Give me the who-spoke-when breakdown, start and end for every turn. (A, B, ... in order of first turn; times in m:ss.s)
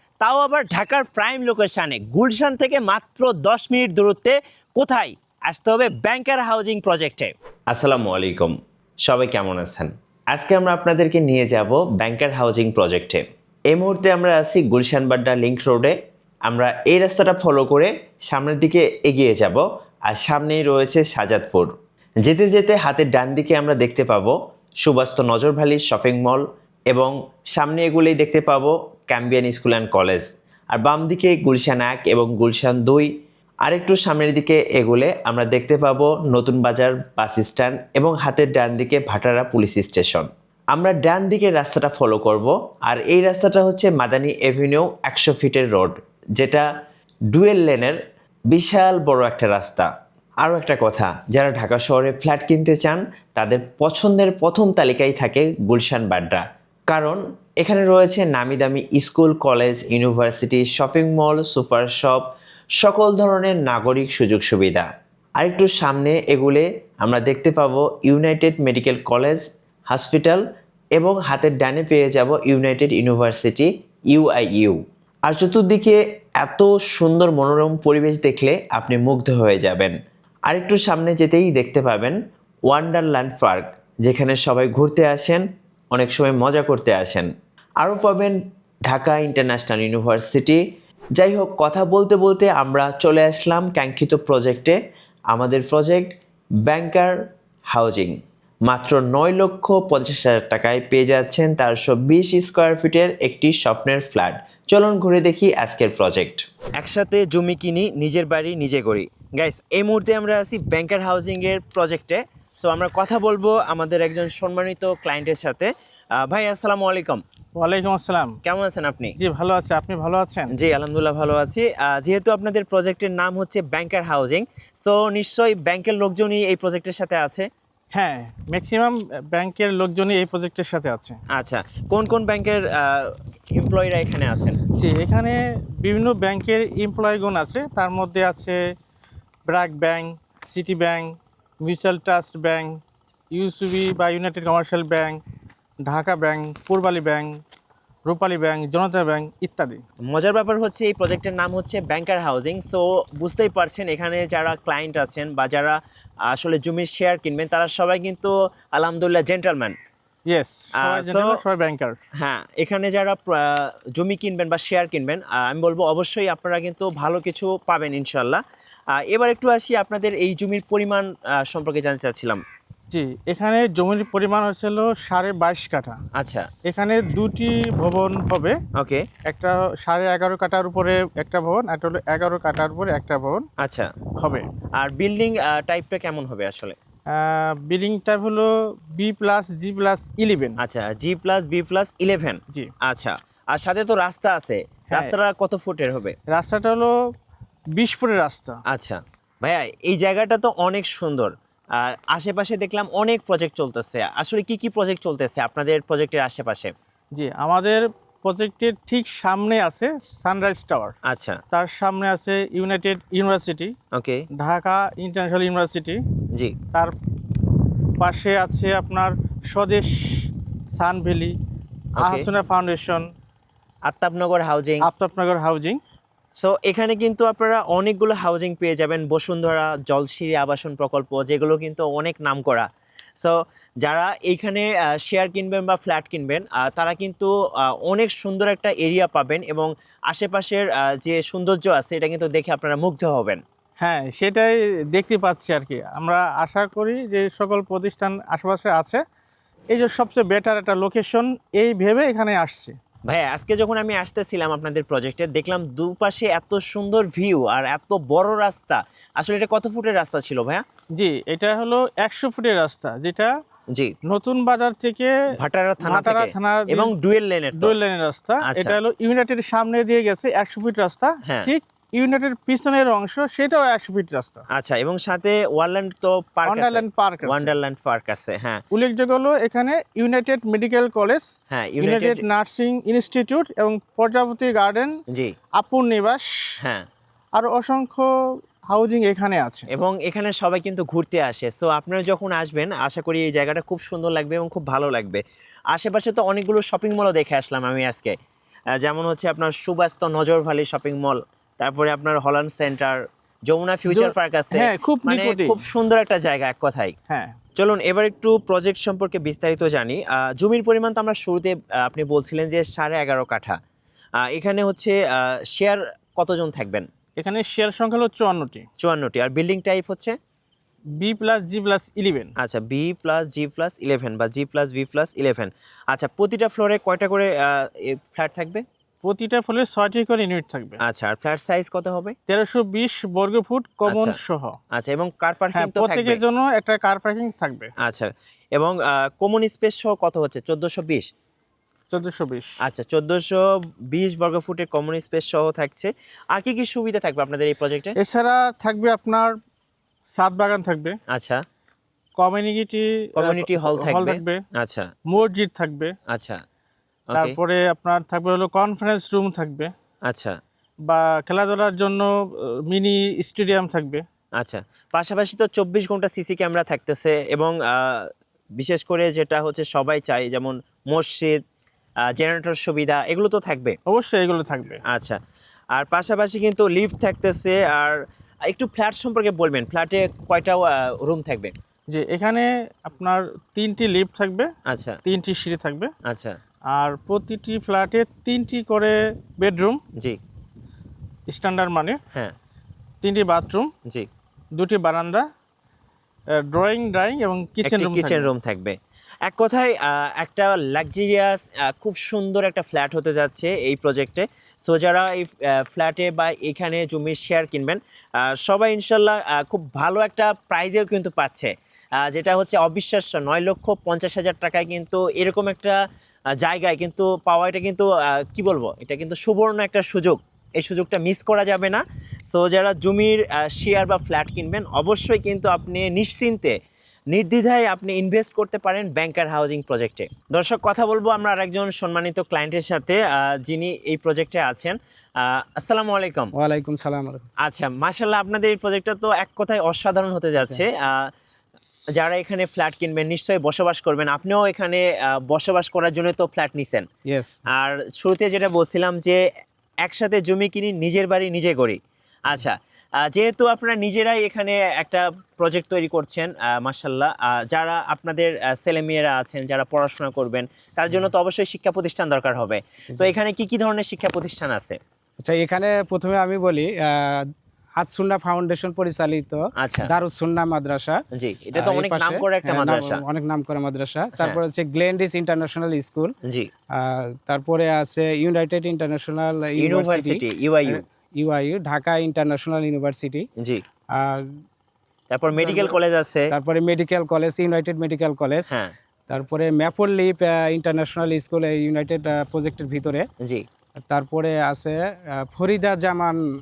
0:00.2-0:15.9 A
0:16.5-0:21.7 A
0:22.2-0:33.1 A
0:33.6-0:46.6 A
0:47.3-0:48.0 A
0:48.5-0:49.9 A
0:50.4-1:02.2 A
1:02.8-1:10.4 A
1:10.9-1:20.0 A
1:20.5-1:22.2 A
1:22.7-1:30.6 A
1:31.2-1:34.8 A
1:35.3-1:36.1 A
1:36.6-1:37.1 A
1:37.7-1:55.7 A
1:56.2-1:57.2 A
1:57.6-1:58.4 B
1:58.4-1:59.2 A
1:59.2-2:00.5 B
2:00.5-2:07.5 A
2:07.9-2:11.2 B
2:11.3-2:14.6 A
2:14.8-2:18.6 B
2:19.5-2:22.8 B
2:23.3-2:25.2 B
2:25.8-2:27.3 B
2:28.1-2:29.8 B
2:30.1-2:35.8 A
2:36.3-2:39.7 A
2:40.3-2:42.0 B
2:40.8-2:41.4 A
2:42.2-2:48.4 A
2:48.9-2:52.4 A
2:52.9-2:56.0 B
2:56.2-2:56.5 A
2:56.6-2:58.6 B
2:58.8-2:59.0 A
2:59.2-3:03.4 B
3:03.6-3:03.9 A
3:04.2-3:04.5 B
3:04.8-3:06.8 A
3:07.1-3:10.6 B
3:10.6-3:16.1 A
3:14.9-3:15.2 B
3:16.3-3:17.0 B
3:17.7-3:18.6 B
3:18.7-3:26.7 A
3:27.1-3:30.9 B
3:31.0-3:31.4 A
3:31.5-3:33.7 B
3:33.9-3:34.2 A
3:34.4-3:36.0 B
3:38.0-3:41.3 B
3:42.0-3:42.3 A
3:42.0-3:43.1 B
3:43.9-3:44.9 A
3:44.8-3:45.8 B
3:46.4-3:52.7 A
3:53.2-4:03.4 A
4:03.8-4:09.0 B
4:09.7-4:12.8 B
4:13.0-4:20.6 A
4:20.9-4:23.3 B
4:24.1-4:25.1 B
4:25.4-4:27.8 A
4:25.8-4:26.9 B
4:27.5-4:34.4 B
4:28.4-4:28.8 A
4:31.2-4:31.5 A
4:34.5-4:38.6 A
4:36.4-4:37.5 B
4:38.7-4:44.9 B
4:41.5-4:42.2 A
4:45.6-4:46.3 B
4:47.4-4:48.1 B
4:48.7-4:49.7 B
4:49.7-4:58.1 A
4:58.8-5:06.9 A
5:03.9-5:05.6 B
5:07.1-5:07.4 B
5:07.6-5:13.6 A
5:14.2-5:16.9 A
5:17.2-5:18.6 B
5:18.8-5:20.1 A
5:21.0-5:22.3 B
5:22.4-5:28.6 A
5:29.0-5:30.8 B
5:30.8-5:32.1 A
5:32.3-5:34.6 B
5:33.9-5:34.2 A
5:34.7-5:36.2 A
5:35.5-5:37.7 B
5:37.8-5:41.1 A
5:41.9-5:42.6 B
5:42.6-5:43.4 A
5:43.9-5:48.0 A
5:48.0-5:49.3 B
5:50.1-5:51.0 B
5:51.1-5:51.4 A
5:52.2-5:54.4 B
5:53.2-5:54.9 A
5:55.1-5:55.9 B
5:56.1-5:56.4 A
5:57.1-5:57.4 A
5:57.1-5:59.7 B
6:00.1-6:00.3 A
6:00.9-6:04.0 B
6:04.4-6:11.4 A
6:12.1-6:13.8 A
6:13.9-6:14.8 B
6:14.9-6:15.2 A
6:15.7-6:21.5 A
6:21.9-6:24.5 B
6:24.7-6:25.0 A
6:25.0-6:25.9 B
6:26.0-6:26.4 A
6:26.7-6:29.8 B
6:31.3-6:32.0 B
6:33.0-6:33.7 B
6:34.6-6:35.2 B
6:36.4-6:38.3 B
6:37.6-6:55.8 A
6:56.4-7:06.5 A
7:07.1-7:16.3 A
7:17.4-7:21.1 A
7:22.0-7:26.8 A
7:27.5-7:29.2 A
7:29.8-7:44.8 A
7:45.7-7:46.4 C
7:47.8-7:49.2 C
7:49.6-7:49.9 A
7:49.9-7:50.9 C
7:51.1-7:53.0 A
7:51.6-7:56.1 C
7:56.2-7:56.5 A
7:57.3-8:00.2 C
7:59.6-8:00.8 A
8:01.2-8:03.2 C
8:03.4-8:03.6 A
8:05.1-8:06.3 A
8:06.3-8:08.5 C
8:09.7-8:10.1 C
8:10.6-8:13.0 C
8:13.2-8:13.4 A
8:13.9-8:14.4 C
8:15.4-8:16.0 C